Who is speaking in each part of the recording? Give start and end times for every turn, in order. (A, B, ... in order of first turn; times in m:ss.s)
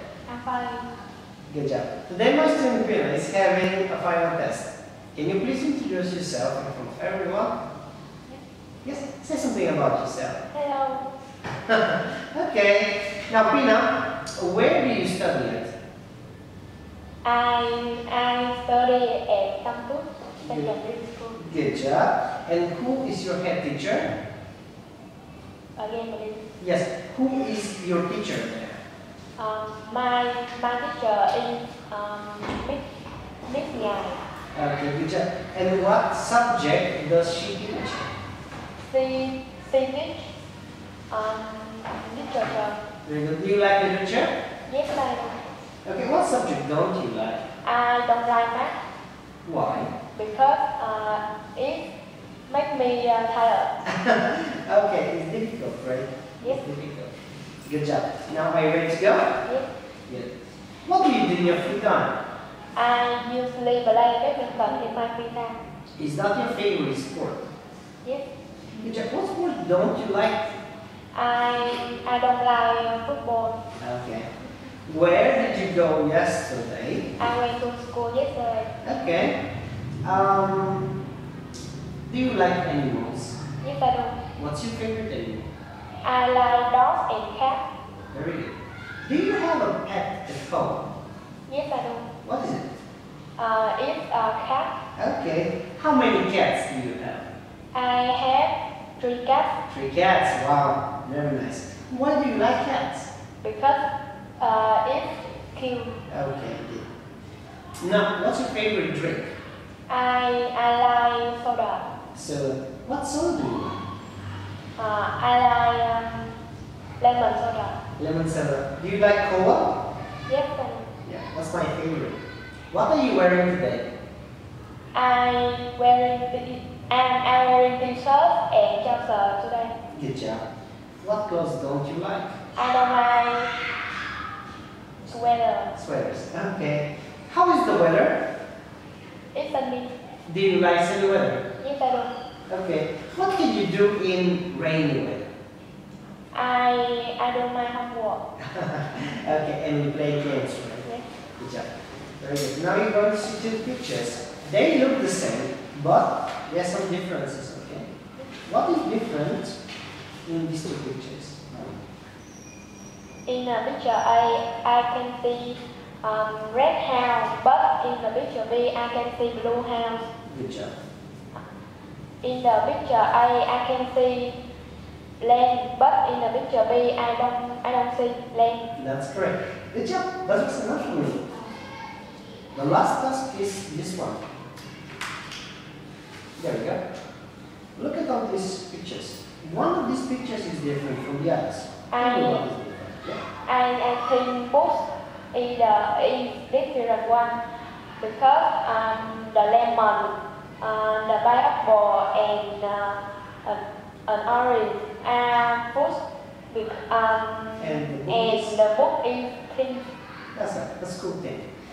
0:00.3-0:00.9 A
0:01.5-0:07.5 B
0:08.8-0:10.4 B
0:10.5-0:11.1 A
0:11.6-0:15.7 B
0:17.2-0:21.4 A
0:20.4-0:20.8 B
0:21.4-0:24.1 B
0:25.8-0:26.4 A
0:26.6-0:28.8 B
0:29.4-0:32.8 A
0:33.5-0:34.2 A
0:34.5-0:38.1 B
0:38.8-0:40.3 A
0:41.1-0:42.8 A
0:43.0-0:44.3 B
0:44.7-0:45.4 A
0:45.8-0:47.4 B
0:47.6-0:48.8 A
0:49.4-0:49.9 B
0:50.1-0:51.9 A
0:52.5-0:53.7 A
0:53.8-0:57.1 B
0:57.6-0:59.4 B
0:59.4-0:59.7 A
1:00.1-1:00.3 B
1:00.8-1:02.2 B
1:02.7-1:05.6 A
1:06.0-1:07.4 B
1:08.0-1:08.3 A
1:08.8-1:10.5 B
1:11.1-1:13.6 A
1:13.8-1:14.3 B
1:14.9-1:17.1 B
1:17.2-1:18.7 A
1:18.8-1:19.4 B
1:20.0-1:20.9 B
1:22.1-1:23.4 B
1:23.6-1:24.2 A
1:24.4-1:25.4 B
1:26.0-1:27.7 A
1:28.1-1:30.8 B
1:31.5-1:32.1 A
1:32.2-1:32.7 B
1:33.4-1:34.8 A
1:35.0-1:37.3 B
1:37.7-1:39.6 A
1:39.7-1:43.1 B
1:43.4-1:43.9 A
1:44.4-1:46.0 A
1:46.1-1:46.8 B
1:47.8-1:49.3 B
1:49.9-1:51.9 A
1:52.1-1:53.8 B
1:54.8-1:56.4 A
1:57.0-1:57.8 A
1:58.0-1:59.8 B
2:00.3-2:00.9 A
2:01.0-2:02.2 B
2:02.7-2:03.9 B
2:04.9-2:09.7 A
2:09.9-2:10.4 B
2:11.0-2:12.4 B
2:12.6-2:13.5 A
2:15.0-2:15.7 A
2:15.7-2:18.2 B
2:19.3-2:19.9 A
2:20.3-2:21.4 B
2:21.6-2:22.1 A
2:22.5-2:25.3 B
2:26.3-2:28.2 A
2:28.4-2:30.8 B
2:31.4-2:31.7 B
2:32.2-2:37.9 B
2:38.4-2:39.6 B
2:40.2-2:41.6 B
2:43.3-2:50.1 A
2:50.3-2:50.8 B
2:52.2-2:54.4 A
2:55.2-2:58.7 A
2:58.8-3:01.2 B
3:02.5-3:04.2 B
3:06.4-3:06.8 B
3:07.8-3:13.2 B
3:11.9-3:12.5 A
3:13.4-3:17.4 A
3:18.0-3:29.9 A
3:27.6-3:28.6 B
3:30.3-3:31.5 B